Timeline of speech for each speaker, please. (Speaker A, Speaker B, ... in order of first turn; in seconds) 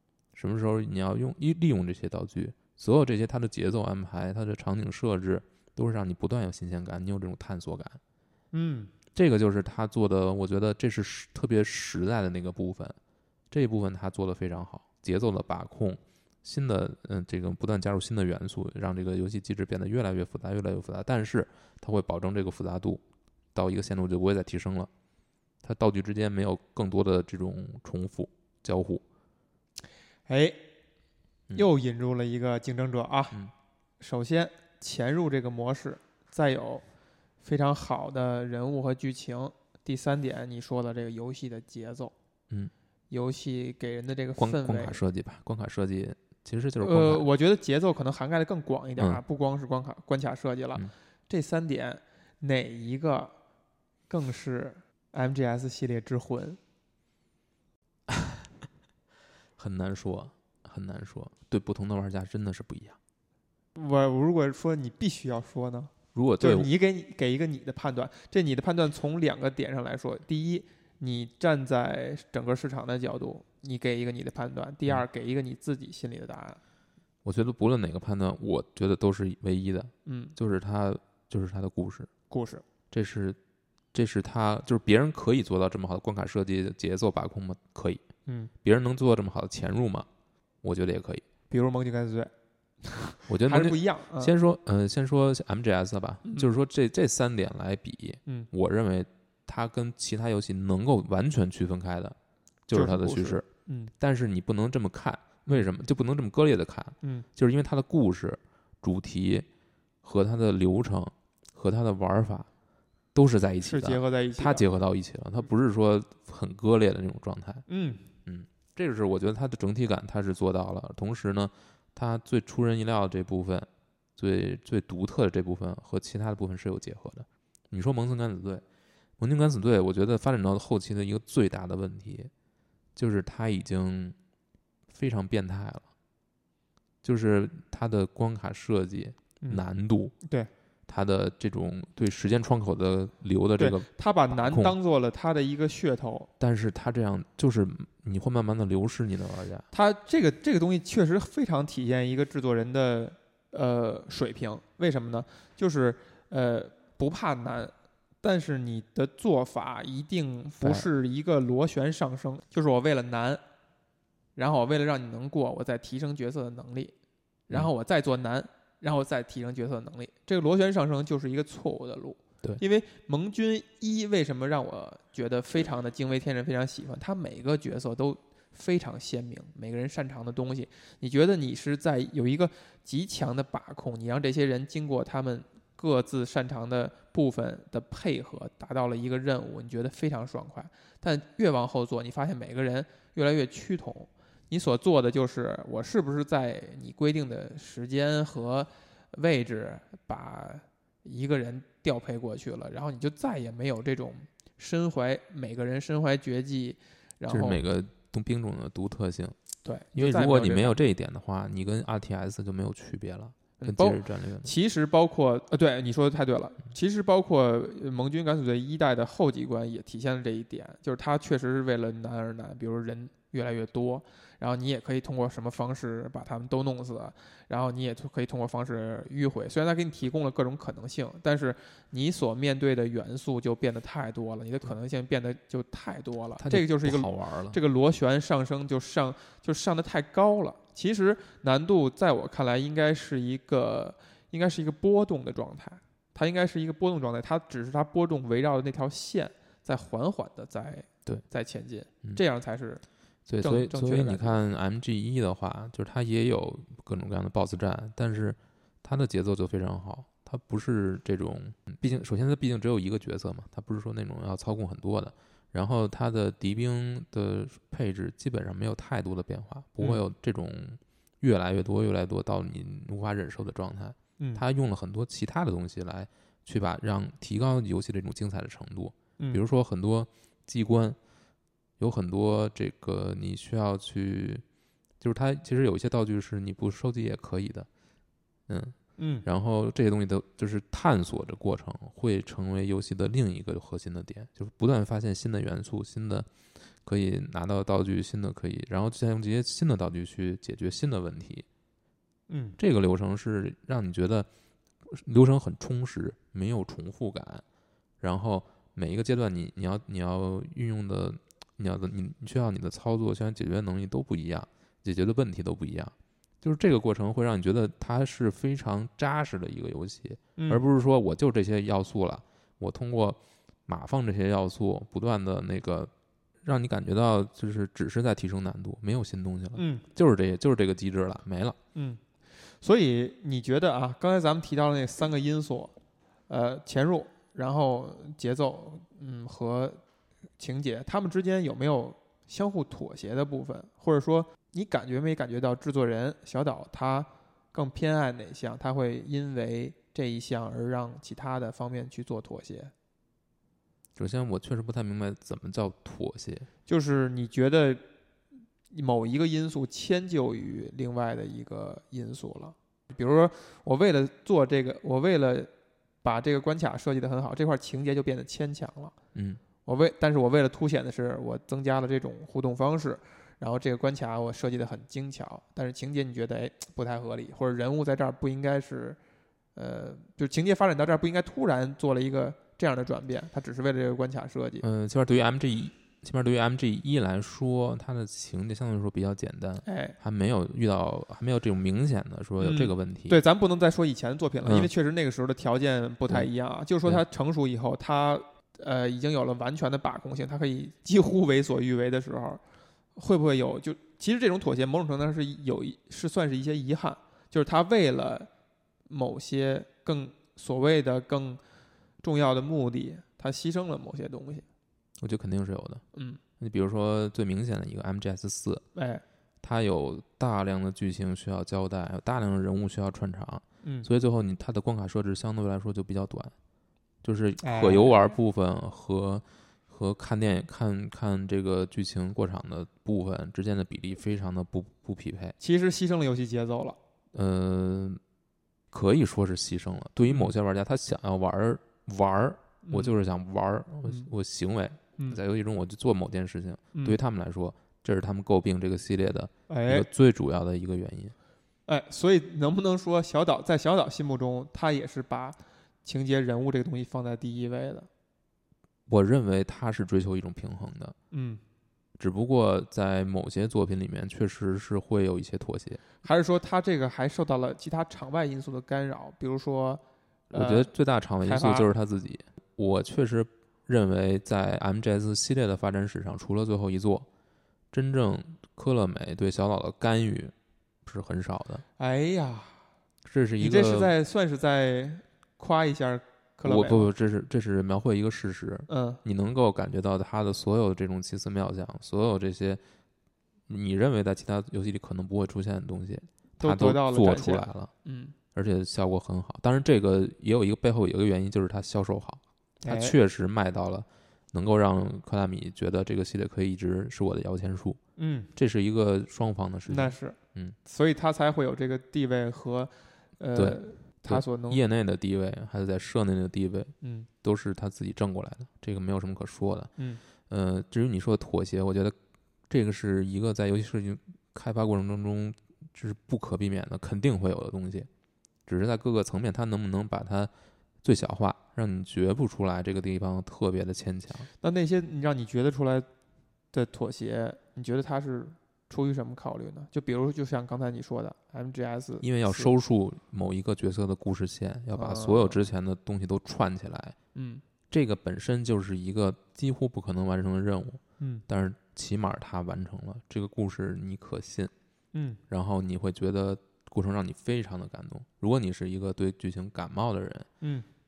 Speaker A: 0.3-8.0, 9.1-13.0, 13.5-23.0, 23.5-24.9, 25.6-29.0, 44.4-47.2, 58.1-58.5, 59.6-63.0, 66.1-66.7, 77.2-82.1, 82.9-83.4, 83.9-88.0, 88.6-90.1, 90.6-91.2, 93.3-103.5, 104.0-109.5, 110.0-112.5, 113.1-117.6, 118.2-128.6, 129.2-132.3, 132.9-134.2, 134.9-135.9, 137.0-140.1, 140.9-144.7, 146.4-149.7, 160.6-160.9, 207.3-209.3, 209.9-214.5, 236.4-237.6, 253.3-281.0, 281.8-284.4, 285.0-287.7, 288.5-296.3, 296.8-301.4, 302.6-304.3, 304.9-307.4, 308.0-325.9, 326.4-331.6, 353.9-356.5, 369.1-369.4, 384.6-393.2, 394.4-394.7, 415.0-415.8, 416.4-418.6, 419.4-426.3, 427.0-435.4, 437.1-438.0, 438.7-451.1, 458.9-460.9, 462.0-465.9, 470.3-477.1, 477.7-480.3, 480.8-481.6, 483.0-483.9, 486.4-492.6, 493.5-497.7, 498.3-507.8, 508.4-510.6, 513.3-519.7, 520.3-522.0, 522.5-527.9, 528.5-530.3, 530.8-534.3, 542.0-547.0, 547.7-554.5, 555.3-560.3
Speaker B: 8.5-8.9, 30.3-30.6, 31.5-33.4, 34.0-36.8, 37.4-42.1, 43.1-45.0, 46.8-53.3, 54.1-56.6, 63.8-76.6, 80.0-80.3, 82.3-82.6, 91.5-92.3, 92.8-94.3, 96.2-96.5, 102.7-103.9, 113.6-114.7, 117.7-118.0, 140.2-140.5, 143.6-146.3, 149.7-163.4, 164.3-166.9, 167.5-207.6, 209.6-210.8, 213.6-252.8, 253.4-254.4, 289.0-289.2, 302.3-302.6, 320.4-320.6, 329.5-329.8, 331.7-332.0, 332.6-335.7, 336.3-339.8, 340.4-352.7, 356.7-357.8, 358.7-365.5, 366.0-368.9, 369.6-379.0, 379.5-384.6, 389.6-390.0, 392.4-402.4, 402.9-408.3, 408.9-411.4, 412.0-414.4, 415.9-416.2, 418.7-419.0, 427.4-427.9, 435.4-436.8, 442.6-442.9, 449.5-449.9, 451.7-457.9, 461.1-461.4, 466.0-469.8, 470.3-470.7, 471.2-471.7, 481.8-482.6, 483.4-486.9, 488.7-489.0, 496.4-498.1, 502.6-502.9, 508.0-508.3, 509.7-514.6, 516.8-517.1, 534.4-535.9, 536.5-542.5, 544.7-545.4, 547.1-547.4, 554.9-555.2, 560.4-560.6